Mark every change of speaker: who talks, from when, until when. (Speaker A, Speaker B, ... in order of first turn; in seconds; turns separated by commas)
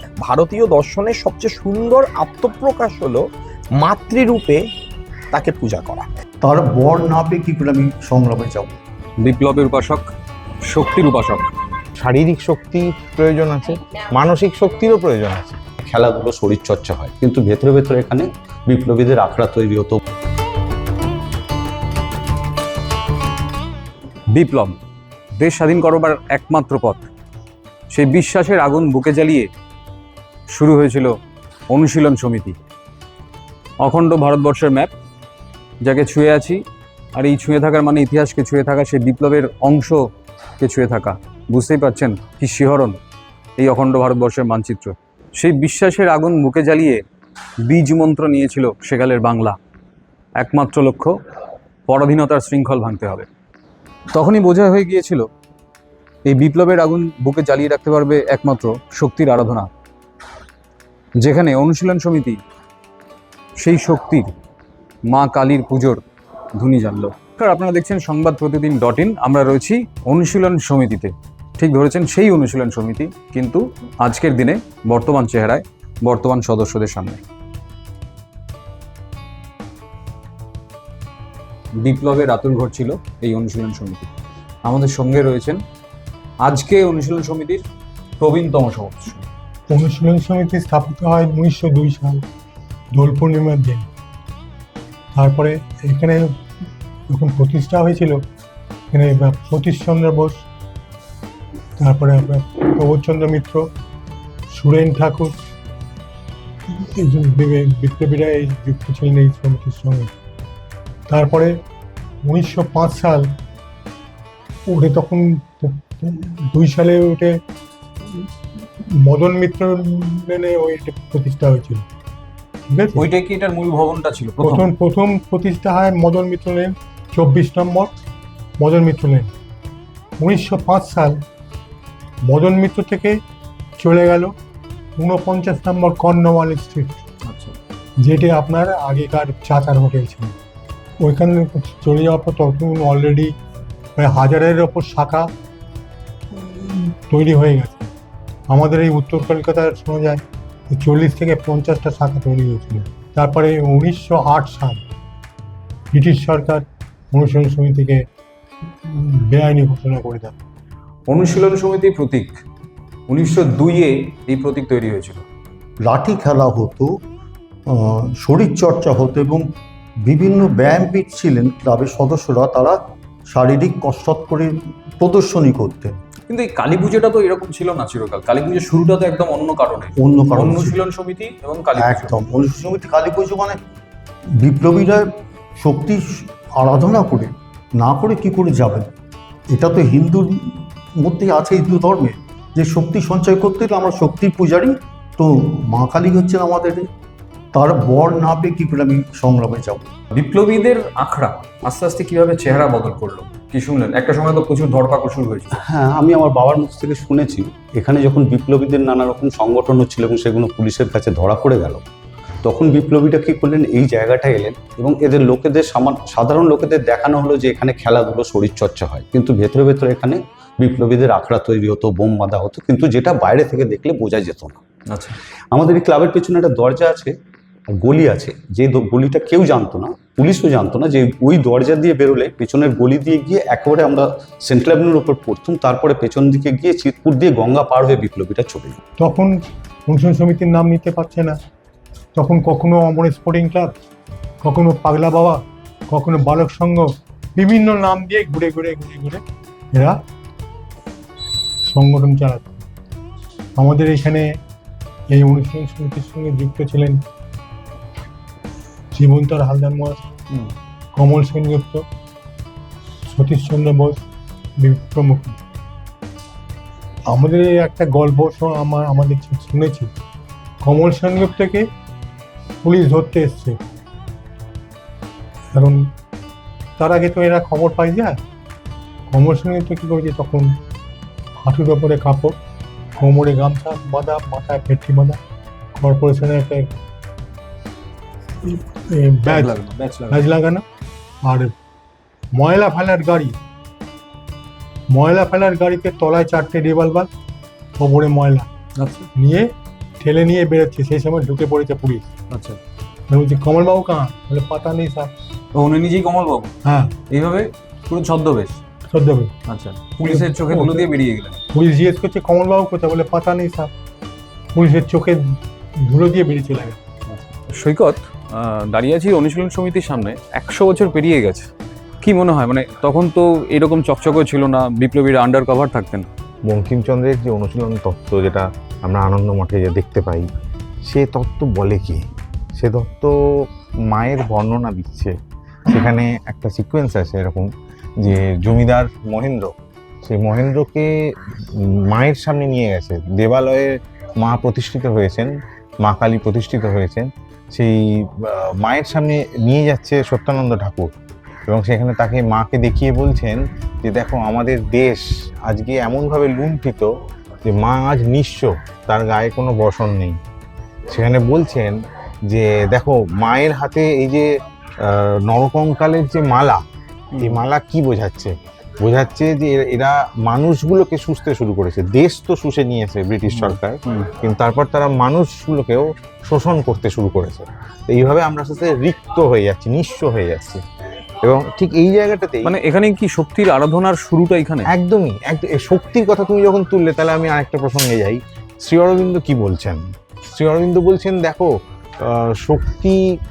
Speaker A: 0.2-3.2, Speaker A: 3.8-4.6, Speaker A: 5.3-6.1, Speaker B: 6.4-8.7, Speaker C: 9.2-10.0, Speaker C: 10.7-11.5, Speaker D: 12.0-15.6, Speaker E: 15.8-20.0, Speaker C: 24.3-24.8, Speaker C: 25.4-27.1, Speaker C: 27.9-29.5, Speaker C: 30.5-31.1, Speaker C: 31.7-32.6, Speaker C: 33.8-34.9, Speaker C: 35.8-36.6, Speaker C: 37.1-40.0, Speaker C: 40.6-43.0, Speaker C: 43.6-47.0, Speaker C: 47.7-49.6, Speaker C: 50.4-51.1, Speaker C: 51.9-53.3, Speaker C: 54.1-55.3, Speaker C: 56.2-59.7, Speaker C: 61.2-62.4, Speaker C: 63.6-64.3, Speaker C: 65.1-66.0, Speaker C: 66.6-77.2, Speaker C: 81.8-84.1, Speaker C: 84.6-85.6, Speaker C: 86.4-87.6, Speaker C: 88.2-89.2, Speaker F: 89.7-92.2, Speaker F: 92.9-93.9, Speaker F: 95.1-96.3, Speaker F: 97.1-98.2, Speaker F: 98.9-100.4, Speaker F: 101.8-103.6, Speaker F: 104.5-105.3, Speaker F: 106.9-110.1, Speaker F: 111.1-111.5, Speaker F: 112.2-113.3, Speaker F: 114.7-117.4, Speaker F: 119.0-121.8, Speaker F: 122.7-123.0, Speaker C: 122.9-124.7, Speaker F: 124.4-127.9, Speaker F: 128.6-129.3, Speaker F: 130.2-131.2, Speaker F: 132.2-133.2, Speaker F: 133.8-134.3, Speaker F: 135.0-137.0, Speaker C: 137.2-137.5, Speaker F: 138.0-140.3, Speaker F: 141.0-143.3, Speaker F: 144.0-145.3, Speaker F: 146.3-147.9, Speaker F: 148.5-154.8, Speaker F: 155.9-158.0, Speaker F: 158.9-160.3, Speaker C: 161.1-162.3, Speaker C: 163.1-165.2, Speaker B: 165.8-166.9, Speaker B: 167.7-169.5, Speaker B: 170.0-176.0, Speaker C: 176.3-182.1, Speaker B: 180.0-180.8, Speaker B: 181.8-183.6, Speaker B: 184.4-188.9, Speaker B: 189.5-196.9, Speaker B: 197.5-199.9, Speaker C: 200.1-205.6, Speaker E: 205.7-211.8, Speaker E: 212.4-224.6, Speaker E: 225.5-227.1, Speaker E: 227.8-238.8, Speaker F: 239.0-241.4, Speaker F: 242.1-243.8, Speaker F: 244.4-250.0, Speaker F: 251.6-252.6, Speaker F: 253.6-254.3, Speaker F: 255.1-257.0, Speaker F: 258.9-260.1, Speaker F: 260.9-261.8, Speaker F: 263.1-264.0, Speaker F: 264.6-265.4, Speaker F: 267.1-269.9, Speaker F: 270.6-271.6, Speaker F: 272.6-273.6, Speaker F: 275.5-275.8, Speaker F: 276.8-278.2, Speaker F: 279.1-280.6, Speaker F: 281.4-282.4, Speaker F: 283.0-285.2, Speaker F: 285.8-286.7, Speaker F: 288.4-290.6, Speaker C: 289.2-290.2, Speaker F: 291.2-291.5, Speaker F: 292.3-293.3, Speaker F: 294.9-297.1, Speaker F: 297.8-298.5, Speaker C: 298.8-299.1, Speaker F: 299.1-302.0, Speaker C: 302.3-302.6, Speaker F: 303.1-305.1, Speaker C: 305.5-306.5, Speaker F: 306.6-306.9, Speaker C: 307.1-308.6, Speaker F: 308.9-309.3, Speaker C: 309.5-311.4, Speaker F: 310.0-310.9, Speaker F: 311.5-313.7, Speaker F: 314.5-316.8, Speaker C: 317.1-321.5, Speaker C: 322.0-326.1, Speaker D: 326.4-330.3, Speaker D: 330.9-332.0, Speaker D: 332.6-333.1, Speaker D: 333.9-335.1, Speaker D: 335.7-337.5, Speaker D: 338.0-339.5, Speaker D: 340.0-340.9, Speaker D: 341.6-345.3, Speaker D: 345.8-350.9, Speaker D: 351.5-356.9, Speaker D: 357.4-360.2, Speaker D: 360.9-361.8, Speaker D: 362.3-364.3, Speaker D: 364.8-366.6, Speaker C: 367.1-367.4, Speaker D: 367.2-380.6, Speaker C: 373.3-374.1, Speaker D: 381.2-382.5, Speaker C: 382.4-384.7, Speaker D: 384.7-389.8, Speaker D: 390.3-393.0